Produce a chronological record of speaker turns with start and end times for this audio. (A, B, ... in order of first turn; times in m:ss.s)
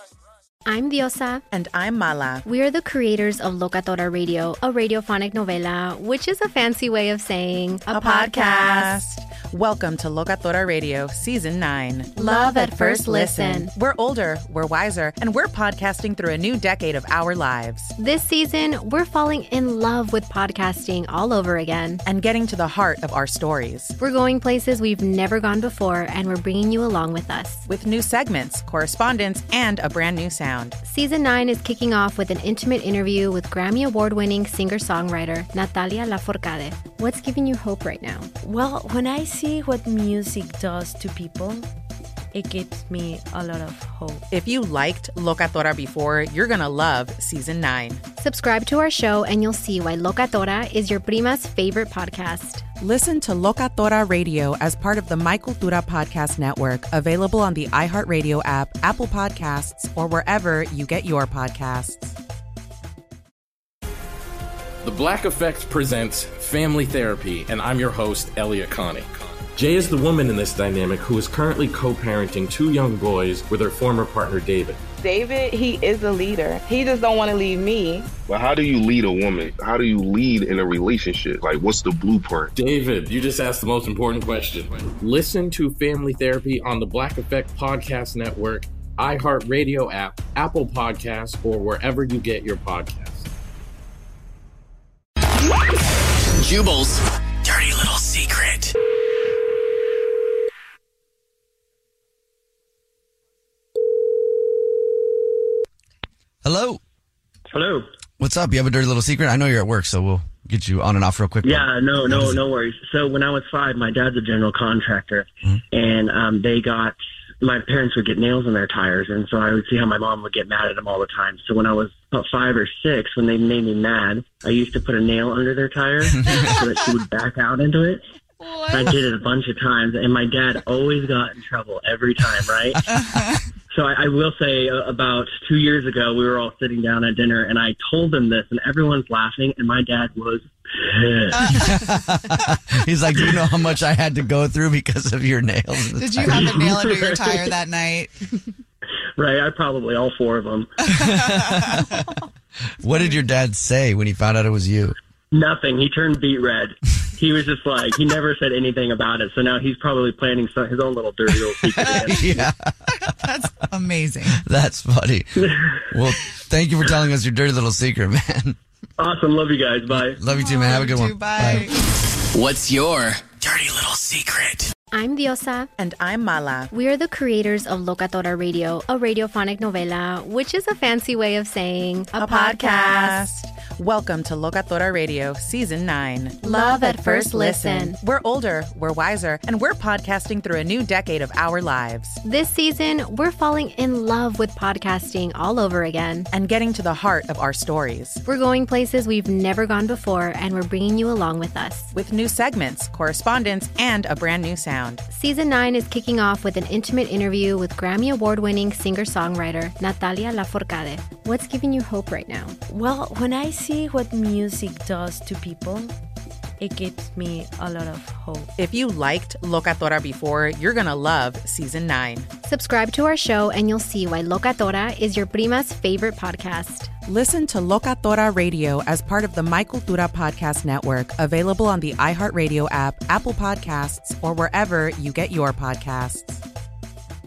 0:00.7-0:01.4 A
0:01.5-0:02.4 B
0:02.4-0:09.0 A
0:07.9-0:17.9 B
0:12.2-0:13.7 A
0:18.0-0:22.0 A
0:22.1-0:24.0 B
0:24.0-0:27.7 A
0:27.7-0:30.8 B
0:30.8-0:38.3 A
0:38.4-0:41.7 C
0:42.3-0:44.3 C
0:44.3-0:48.0 B
0:48.2-0:52.7 A
0:52.8-1:02.2 B
1:04.8-1:14.8 D
1:15.0-1:18.1 E
1:18.3-1:22.5 F
1:22.6-1:33.3 D
1:36.3-1:38.7 G
1:46.4-1:46.8 H
1:47.5-1:47.9 I
1:48.2-1:52.4 H
1:51.4-2:08.0 I
2:08.4-2:09.0 J
2:08.7-2:12.8 I
2:13.7-2:21.3 I
2:21.6-2:26.4 H
2:26.0-2:28.1 J
2:26.4-2:27.4 I
2:29.2-2:30.7 I
2:31.0-2:31.9 H
2:32.8-2:35.0 H
2:35.3-2:42.4 I
2:41.8-2:42.7 H
2:43.3-2:44.4 J
2:44.3-2:45.4 H
2:45.9-2:48.6 H
2:49.0-2:50.2 I
2:49.9-2:51.7 H
2:50.4-2:51.7 J
2:52.3-2:54.7 G
2:54.9-2:55.7 A
2:55.8-2:56.7 B
2:56.7-3:03.2 A
3:02.2-3:12.2 B
3:06.4-3:08.0 A
3:12.2-3:16.3 A
3:16.3-3:18.2 B
3:18.3-3:21.9 A
3:21.9-3:25.0 B
3:25.1-3:32.6 A
3:32.7-3:36.0 C
3:36.6-3:38.5 C
3:38.6-3:42.3 B
3:42.4-3:46.9 A
3:47.1-3:56.4 B